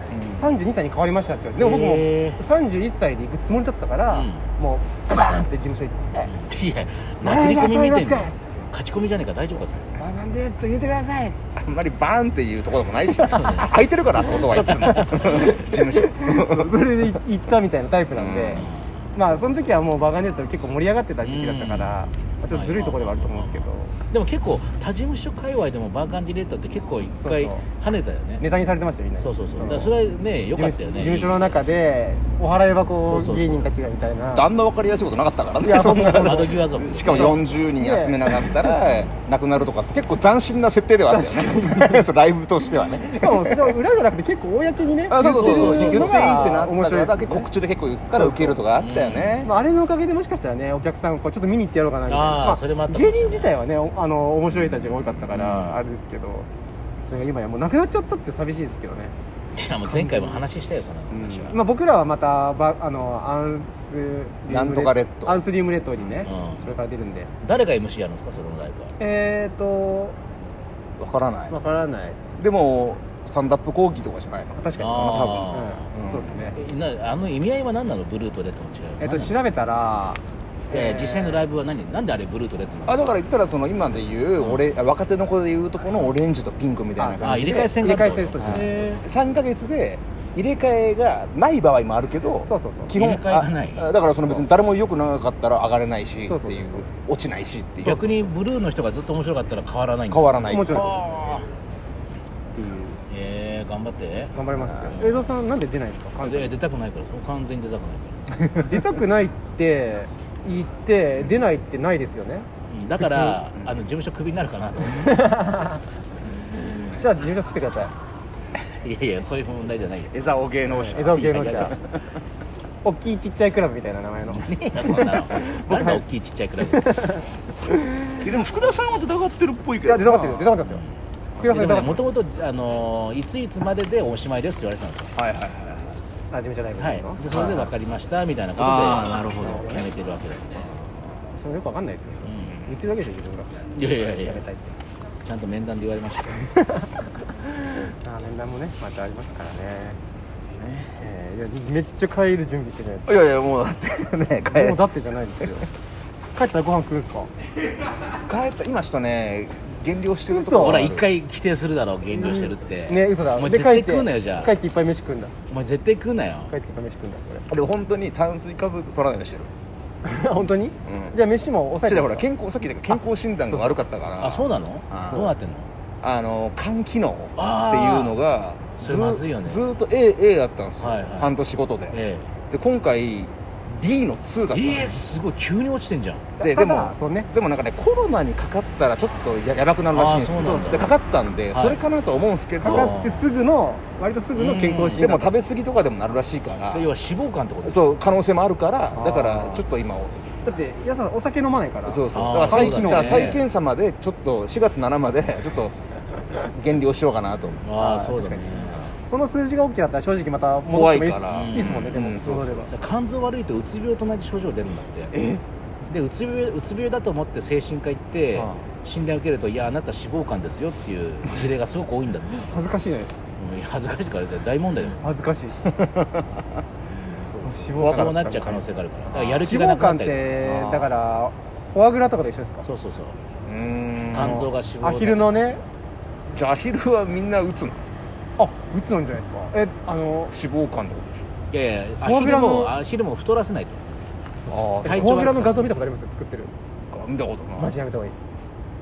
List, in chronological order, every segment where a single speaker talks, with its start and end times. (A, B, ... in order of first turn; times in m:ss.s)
0:00.1-0:00.4 A
0:00.3-0:06.3 B
0:01.6-0:02.4 C
0:04.1-0:04.4 C
0:06.2-0:09.9 C
0:07.2-0:08.5 B
0:10.0-0:11.5 B
0:11.6-0:16.7 A
0:13.3-0:13.7 C
0:14.6-0:15.5 C
0:15.1-0:23.9 B
0:18.1-0:18.7 A
0:21.2-0:21.9 C
0:22.5-0:28.5 C
0:27.2-0:27.6 B
0:28.4-0:30.0 B
0:29.2-0:31.5 C
0:30.5-0:34.4 B
0:33.0-0:33.6 C
0:34.3-0:43.8 A
0:35.6-0:38.6 B
0:35.8-0:37.4 C
0:38.8-0:39.1 C
0:41.1-0:42.1 B
0:43.2-0:47.5 B
0:45.1-0:49.5 A
0:45.2-0:46.5 C
0:48.1-0:48.6 B
0:48.8-0:49.5 C
0:49.4-0:56.5 B
0:52.1-0:53.6 C
0:54.5-0:55.6 A
0:55.4-0:55.8 C
0:57.0-0:59.1 B
0:59.5-1:01.6 C
0:59.8-1:00.5 B
1:01.1-1:07.3 B
1:04.5-1:05.5 A
1:06.2-1:06.7 C
1:07.4-1:09.0 C
1:09.0-1:10.2 B
1:11.0-1:11.6 A
1:11.5-1:12.2 B
1:12.4-1:16.4 A
1:14.6-1:16.6 B
1:14.8-1:15.8 C
1:16.5-1:19.3 C
1:19.0-1:21.5 B
1:20.7-1:23.0 C
1:22.8-1:27.7 A
1:27.0-1:29.0 B
1:27.2-1:29.0 C
1:28.4-1:38.1 A
1:32.4-1:32.9 B
1:32.9-1:33.9 C
1:36.2-1:36.8 B
1:37.8-1:41.4 C
1:37.8-1:38.2 B
1:40.1-1:41.0 A
1:40.5-1:41.1 B
1:42.5-1:43.0 B
1:43.1-1:45.3 C
1:44.3-1:46.7 B
1:44.6-1:44.9 A
1:46.2-1:48.3 C
1:48.6-1:52.5 B
1:52.7-1:55.5 C
1:53.0-1:53.4 B
1:54.9-1:55.8 B
1:56.6-1:57.9 B
1:58.8-2:00.1 C
2:00.1-2:02.0 A
2:00.7-2:01.8 B
2:01.1-2:01.7 C
2:02.8-2:06.0 B
2:04.3-2:07.0 C
2:06.6-2:07.2 B
2:07.9-2:08.3 B
2:08.2-2:10.5 A
2:09.8-2:10.8 B
2:11.4-2:12.1 B
2:11.4-2:15.1 C
2:15.2-2:16.0 A
2:16.3-2:17.6 B
2:16.8-2:20.7 C
2:17.4-2:17.7 A
2:18.6-2:19.3 A
2:19.4-2:19.9 B
2:21.3-2:23.5 B
2:22.3-2:22.5 C
2:23.7-2:24.4 C
2:24.1-2:24.7 B
2:25.2-2:26.4 C
2:26.5-2:27.0 B
2:27.6-2:30.0 B
2:30.6-2:31.0 A
2:31.0-2:33.1 B
2:33.1-2:34.8 A
2:34.5-2:35.7 B
2:36.3-2:37.3 B
2:38.2-2:41.1 A
2:40.3-2:40.9 B
2:40.6-2:44.5 C
2:42.1-2:45.3 B
2:45.5-2:46.5 C
2:46.5-2:47.5 B
2:47.5-2:49.5 A
2:50.0-2:52.2 B
2:50.8-2:51.2 A
2:51.8-2:55.3 A
2:53.5-2:53.8 B
2:54.2-2:55.7 C
2:56.0-3:02.0 A
2:57.4-2:58.2 C
2:58.8-2:59.6 C
3:00.8-3:01.3 C
3:01.9-3:02.3 C
3:02.5-3:05.0 A
3:04.5-3:06.2 C
3:06.4-3:07.3 B
3:06.4-3:13.0 A
3:09.9-3:10.9 C
3:10.3-3:11.0 B
3:11.5-3:11.8 C
3:12.6-3:15.3 B
3:12.6-3:13.3 C
3:14.4-3:16.9 A
3:14.5-3:15.0 C
3:16.7-3:17.9 C
3:17.6-3:20.3 A
3:18.9-3:19.6 B
3:20.4-3:23.4 B
3:21.9-3:25.7 A
3:22.1-3:23.4 C
3:26.3-3:27.6 A
3:27.6-3:28.9 C
3:27.8-3:32.7 B
3:30.7-3:32.7 A
3:31.3-3:31.9 C
3:32.7-3:35.2 C
3:35.1-3:35.4 B
3:35.9-3:42.6 C
3:38.3-3:38.7 A
3:42.4-3:43.2 B
3:43.4-3:45.1 C
3:45.0-3:45.6 B
3:45.8-3:46.2 A
3:47.2-3:48.2 A
3:47.4-3:52.7 B
3:47.7-3:50.4 C
3:50.4-3:50.9 A
3:52.6-3:53.2 C
3:53.5-3:54.4 A
3:54.1-3:55.3 C
3:54.1-3:55.6 B
3:56.3-3:57.9 A
3:58.4-4:00.3 B
4:00.3-4:01.3 A
4:01.5-4:03.8 C
4:02.0-4:02.7 B
4:04.4-4:06.5 B
4:04.5-4:05.4 A
4:04.8-4:05.8 C
4:06.9-4:07.7 A
4:07.6-4:08.2 B